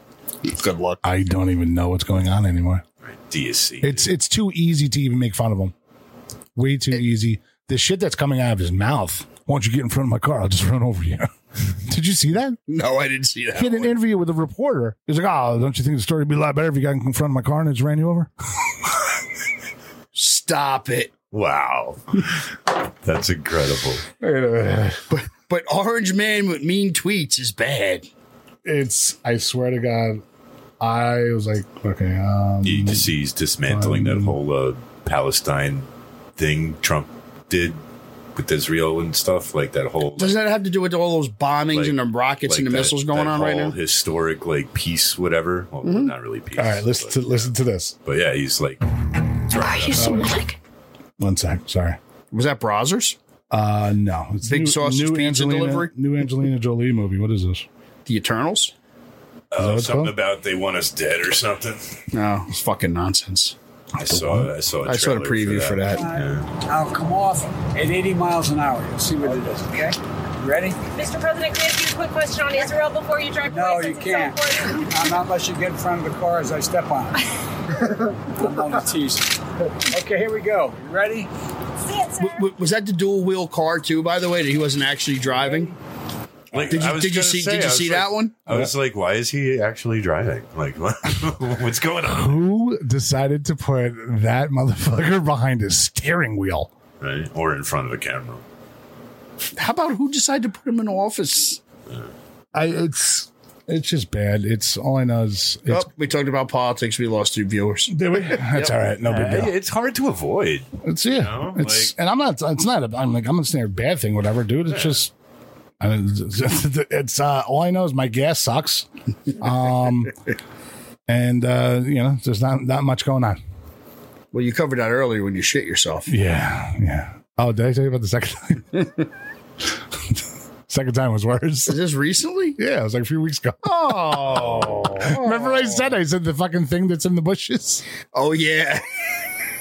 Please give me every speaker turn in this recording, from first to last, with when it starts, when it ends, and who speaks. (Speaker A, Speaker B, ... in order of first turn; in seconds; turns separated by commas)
Speaker A: 0.4-1.0, Speaker B: 1.0-2.8, Speaker C: 3.0-4.1, Speaker B: 3.8-5.7, Speaker B: 6.5-12.6, Speaker A: 12.7-13.9, Speaker B: 13.6-18.3, Speaker A: 20.1-21.1, Speaker C: 21.3-22.4, Speaker C: 23.0-24.0, Speaker B: 24.2-25.0, Speaker A: 25.1-28.1, Speaker B: 28.6-30.2, Speaker B: 30.8-33.1, Speaker C: 32.6-37.8, Speaker B: 33.7-34.4, Speaker C: 38.4-40.4, Speaker A: 40.2-43.7, Speaker C: 41.7-47.5, Speaker A: 45.8-46.1, Speaker B: 46.5-48.0, Speaker C: 48.0-50.4, Speaker B: 49.9-50.4, Speaker B: 51.2-52.0, Speaker A: 52.3-53.2, Speaker B: 53.5-57.6, Speaker A: 54.4-55.9, Speaker A: 58.0-58.7, Speaker C: 59.5-61.9, Speaker B: 59.6-60.1, Speaker A: 62.1-63.5, Speaker C: 64.0-66.5, Speaker B: 64.0-64.5, Speaker A: 64.8-66.1, Speaker D: 65.9-70.9, Speaker E: 70.9-74.8, Speaker D: 73.4-81.3, Speaker E: 81.9-82.4, Speaker A: 82.2-85.7, Speaker C: 86.5-92.4, Speaker A: 86.7-88.3, Speaker B: 92.0-96.7, Speaker C: 97.0-98.4, Speaker A: 99.5-101.6, Speaker B: 102.5-105.9, Speaker A: 105.7-108.7, Speaker B: 107.9-109.5, Speaker C: 109.0-111.9, Speaker B: 110.8-115.1, Speaker B: 115.8-118.9, Speaker B: 119.4-120.1, Speaker B: 121.1-123.4, Speaker A: 124.3-126.1, Speaker B: 126.1-128.8, Speaker B: 130.7-131.8, Speaker A: 131.7-132.6, Speaker B: 132.6-137.8, Speaker A: 133.6-135.9, Speaker A: 138.1-138.8